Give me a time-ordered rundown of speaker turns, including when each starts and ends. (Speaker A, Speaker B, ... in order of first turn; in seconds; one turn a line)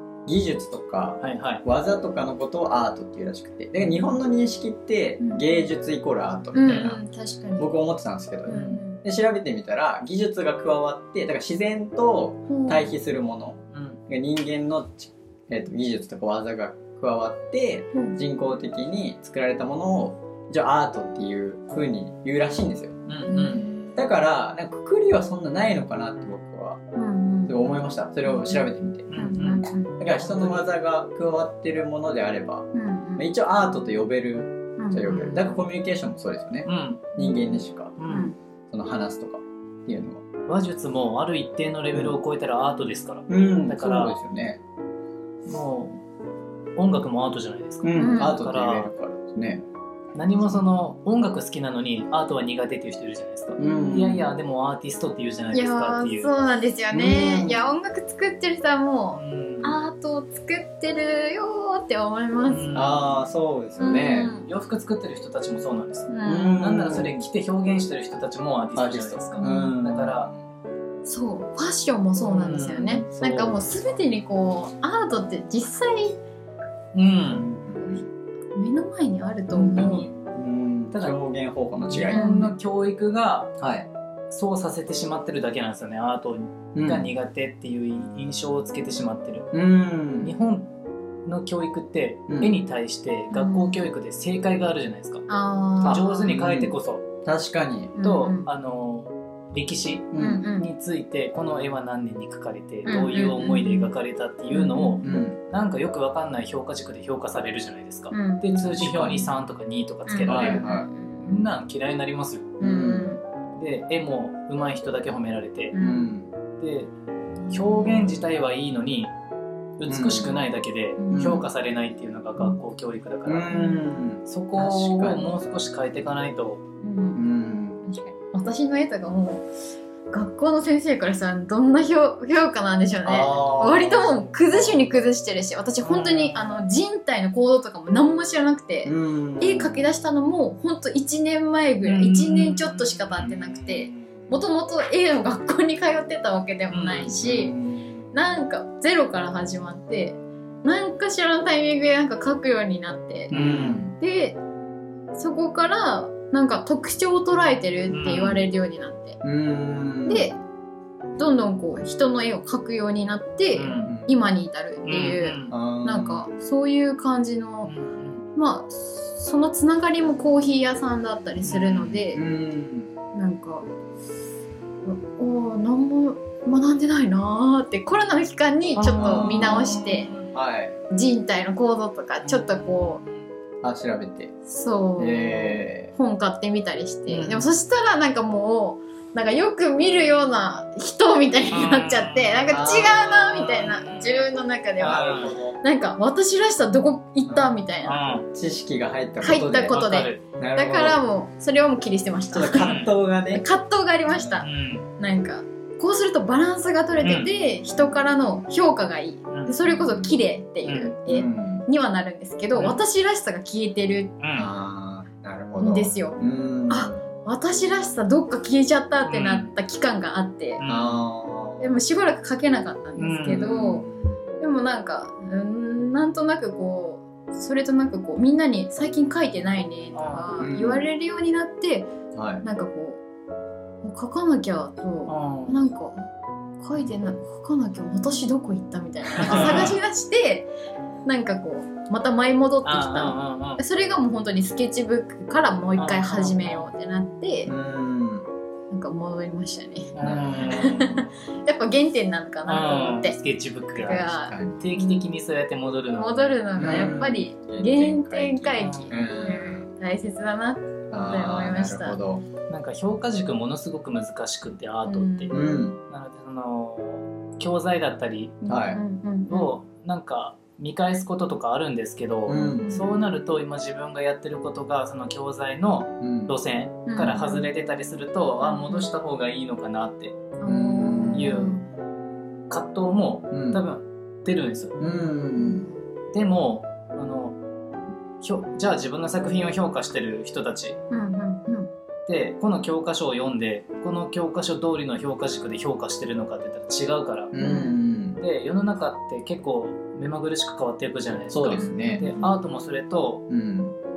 Speaker A: 0.3-7.0
Speaker B: 1.2-1.6
Speaker C: 5.2-5.5
Speaker C: 6.5-7.7
Speaker B: 6.7-7.0
Speaker A: 7.6-23.0
Speaker C: 8.5-9.0
Speaker B: 8.5-8.8
Speaker C: 12.5-12.9
Speaker B: 13.7-14.0
Speaker B: 23.1-23.6
Speaker C: 23.3-23.9
Speaker A: 23.9-26.8
Speaker C: 26.9-27.6
Speaker A: 27.5-29.2
Speaker C: 28.3-30.0
Speaker B: 29.1-30.7
Speaker A: 30.0-38.0
Speaker C: 32.7-33.3
Speaker C: 34.8-35.3
Speaker B: 35.1-35.6
Speaker B: 36.7-37.2
Speaker B: 38.0-38.3
Speaker C: 38.1-38.4
Speaker A: 38.7-40.2
Speaker B: 40.5-44.2
Speaker A: 43.3-44.6
Speaker B: 45.5-46.0
Speaker B: 46.8-48.9
Speaker A: 47.8-49.6
Speaker C: 48.0-48.4
Speaker B: 50.1-56.3
Speaker A: 53.6-54.3
Speaker C: 53.6-54.2
Speaker C: 55.5-62.7
Speaker A: 56.9-57.7
Speaker B: 59.1-59.8
Speaker B: 62.5-63.2
Speaker A: 62.7-64.3
Speaker C: 63.8-64.5
Speaker B: 64.3-70.3
Speaker C: 66.1-66.7
Speaker A: 66.3-67.2
Speaker A: 68.8-70.4
Speaker C: 69.4-69.7
Speaker C: 71.0-76.2
Speaker B: 72.2-73.2
Speaker A: 73.2-73.6
Speaker B: 76.9-77.5
Speaker A: 77.3-78.1
Speaker C: 78.5-80.1
Speaker A: 79.5-82.3
Speaker B: 79.7-80.1
Speaker B: 81.9-83.6
Speaker C: 82.1-82.5
Speaker A: 83.6-83.9
Speaker B: 84.3-89.5
Speaker A: 86.8-87.1
Speaker A: 89.5-90.3
Speaker B: 90.2-90.7
Speaker B: 91.3-95.2
Speaker A: 92.3-92.6
Speaker C: 93.3-93.8
Speaker C: 95.3-96.4
Speaker B: 95.8-97.0
Speaker A: 95.8-97.9
Speaker C: 98.0-98.5
Speaker B: 98.0-112.6
Speaker A: 100.1-100.4
Speaker C: 100.2-100.7
Speaker C: 102.9-103.9
Speaker C: 104.5-105.1
Speaker A: 105.0-105.4
Speaker C: 108.1-108.7
Speaker A: 108.7-109.3
Speaker C: 110.1-111.5
Speaker A: 110.3-110.9
Speaker A: 112.6-113.1
Speaker C: 112.6-113.2
Speaker B: 113.6-115.8
Speaker C: 115.7-116.1
Speaker A: 115.8-116.3
Speaker B: 116.6-116.9
Speaker C: 117.5-118.1
Speaker B: 117.5-119.1
Speaker B: 119.8-123.7
Speaker A: 119.9-120.4
Speaker C: 121.0-121.4
Speaker A: 121.1-121.5
Speaker A: 123.3-125.4
Speaker B: 124.2-126.6
Speaker C: 126.8-127.2
Speaker A: 127.2-127.8
Speaker C: 127.8-129.5
Speaker C: 130.1-147.5
Speaker A: 133.1-134.9
Speaker B: 135.8-136.4
Speaker A: 138.8-139.8
Speaker B: 141.8-142.8
Speaker A: 143.2-144.3
Speaker B: 146.7-147.2
Speaker A: 147.1-148.1
Speaker C: 148.1-153.4
Speaker B: 153.3-153.8
Speaker A: 153.3-153.9
Speaker C: 154.0-154.4
Speaker C: 155.2-159.2
Speaker B: 157.9-158.4
Speaker A: 159.2-160.3
Speaker C: 160.1-160.4
Speaker C: 161.2-167.7
Speaker B: 163.6-163.9
Speaker A: 163.9-164.1
Speaker B: 164.9-165.6
Speaker A: 165.5-166.3
Speaker B: 167.7-168.2
Speaker C: 168.3-172.2
Speaker B: 171.4-172.0
Speaker A: 172.1-172.9
Speaker C: 173.1-173.7
Speaker C: 174.8-180.1
Speaker B: 178.8-180.3
Speaker A: 178.8-180.8
Speaker C: 180.9-183.0
Speaker B: 182.2-183.1
Speaker A: 183.6-184.3
Speaker C: 184.4-198.1
Speaker A: 185.0-185.9
Speaker B: 187.1-187.5
Speaker B: 191.5-194.2
Speaker A: 192.5-193.3
Speaker B: 194.8-195.4
Speaker A: 194.8-195.6
Speaker B: 197.8-198.3
Speaker A: 198.3-199.8
Speaker C: 199.2-202.8
Speaker B: 199.6-200.2
Speaker A: 200.4-201.0
Speaker A: 202.3-203.4
Speaker B: 202.6-202.9
Speaker C: 203.3-214.1
Speaker B: 204.4-204.9
Speaker B: 207.0-207.3
Speaker B: 209.3-209.6
Speaker A: 209.7-210.2
Speaker B: 210.6-210.9
Speaker A: 211.1-211.7
Speaker B: 212.5-212.8
Speaker B: 214.2-214.5
Speaker A: 214.3-217.0
Speaker C: 215.6-216.2
Speaker C: 216.7-220.6
Speaker B: 219.1-219.5
Speaker B: 220.6-221.0
Speaker A: 220.7-221.7
Speaker C: 221.6-223.9
Speaker B: 223.0-223.7
Speaker A: 223.3-223.9
Speaker C: 224.4-231.9
Speaker B: 229.9-230.4
Speaker A: 230.4-230.9
Speaker A: 232.1-232.4
Speaker C: 232.4-233.0
Speaker C: 233.8-236.1
Speaker B: 235.1-235.6
Speaker C: 236.6-240.5
Speaker B: 239.2-239.8
Speaker A: 239.3-239.7
Speaker C: 241.1-247.5
Speaker B: 242.6-243.6
Speaker B: 245.8-246.7
Speaker A: 247.5-248.3
Speaker C: 248.7-253.2
Speaker B: 250.0-251.0
Speaker A: 250.0-251.1
Speaker B: 252.5-257.0
Speaker C: 253.8-255.0
Speaker A: 254.2-254.6
Speaker C: 255.9-262.0
Speaker A: 256.6-259.7
Speaker B: 258.6-259.0
Speaker A: 260.9-262.3
Speaker B: 262.5-268.4
Speaker C: 264.9-265.6
Speaker A: 265.3-265.8
Speaker C: 268.4-269.5
Speaker A: 268.5-268.8
Speaker B: 269.3-280.2
Speaker A: 272.3-272.7
Speaker C: 272.3-273.0
Speaker A: 276.0-276.4
Speaker C: 276.9-277.5
Speaker C: 278.4-278.9
Speaker C: 280.4-281.6
Speaker A: 280.5-281.4
Speaker B: 281.1-281.6
Speaker B: 282.5-284.8
Speaker A: 283.3-283.6
Speaker A: 284.8-285.7
Speaker B: 286.1-287.4
Speaker B: 288.2-290.8
Speaker C: 290.9-291.7
Speaker B: 292.1-297.4
Speaker A: 297.3-298.2
Speaker C: 297.4-297.8
Speaker B: 298.2-303.2
Speaker A: 301.3-302.1
Speaker C: 301.6-302.3
Speaker A: 303.3-303.8